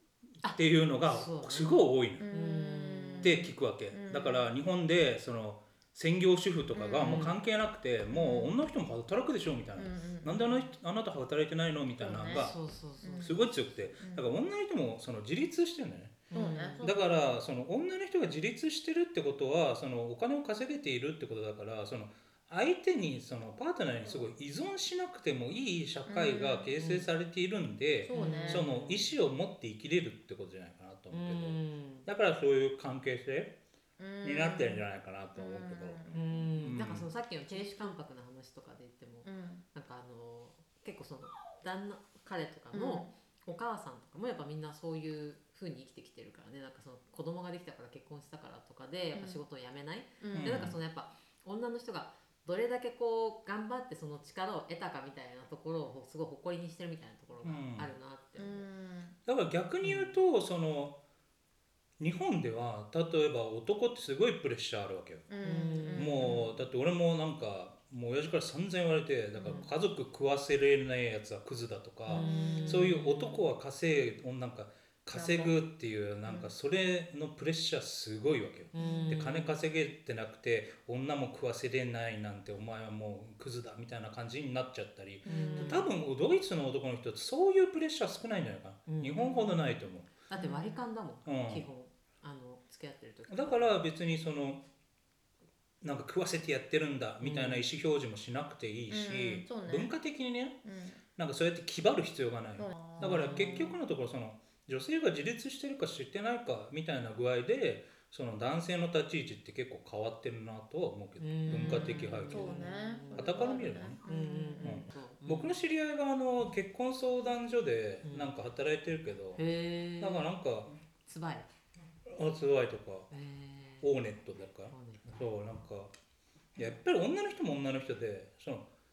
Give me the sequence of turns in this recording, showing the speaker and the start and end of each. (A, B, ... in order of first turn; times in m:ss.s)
0:00.4-0:03.4 A
0:00.5-0:02.2 B
0:02.2-0:04.5 C
0:03.2-0:12.5 B
0:06.7-0:07.3 C
0:07.0-0:07.4 A
0:08.1-0:08.5 C
0:09.8-0:10.6 C
0:12.0-0:13.4 C
0:12.3-0:13.4 A
0:13.2-0:16.2 B
0:14.0-0:14.3 C
0:16.3-0:16.8 A
0:16.3-0:17.1 C
0:16.8-0:33.6 B
0:26.1-0:26.7 C
0:26.8-0:27.1 A
0:28.1-0:28.7 C
0:28.1-0:29.1 A
0:31.1-0:32.1 A
0:34.0-0:36.5 C
0:34.2-0:36.0 B
0:36.1-0:58.6 A
0:36.6-0:37.1 B
0:37.6-0:37.9 C
0:39.2-0:39.6 C
0:42.7-0:43.1 C
0:49.1-0:49.4 C
0:50.2-0:50.7 C
0:50.3-0:50.8 B
0:57.4-0:57.9 B
0:58.4-0:59.2 C
0:59.3-1:01.0 B
0:59.8-1:00.2 A
1:02.0-1:05.3 B
1:05.3-1:06.5 C
1:05.4-1:06.4 A
1:05.9-1:30.1 B
1:09.4-1:09.7 C
1:12.1-1:13.4 A
1:12.1-1:13.0 C
1:15.1-1:15.6 C
1:18.7-1:19.6 A
1:18.8-1:19.2 C
1:25.2-1:25.9 A
1:25.2-1:25.9 C
1:28.9-1:29.6 A
1:30.3-1:33.7 A
1:30.3-1:30.8 C
1:31.3-1:31.7 B
1:33.3-1:34.6 B
1:35.8-1:40.6 B
1:37.2-1:37.7 A
1:38.9-1:39.9 C
1:40.6-1:41.0 C
1:41.2-1:54.0 B
1:42.6-1:43.8 C
1:43.0-1:43.7 A
1:51.2-1:55.6 A
1:51.5-1:54.8 C
1:54.6-1:59.4 B
1:58.0-1:58.3 A
1:59.4-2:00.3 A
2:00.0-2:00.7 B
2:01.1-2:01.5 A
2:02.1-2:03.1 B
2:03.1-2:03.9 A
2:03.8-2:05.9 B
2:04.7-2:05.2 A
2:06.6-2:08.7 B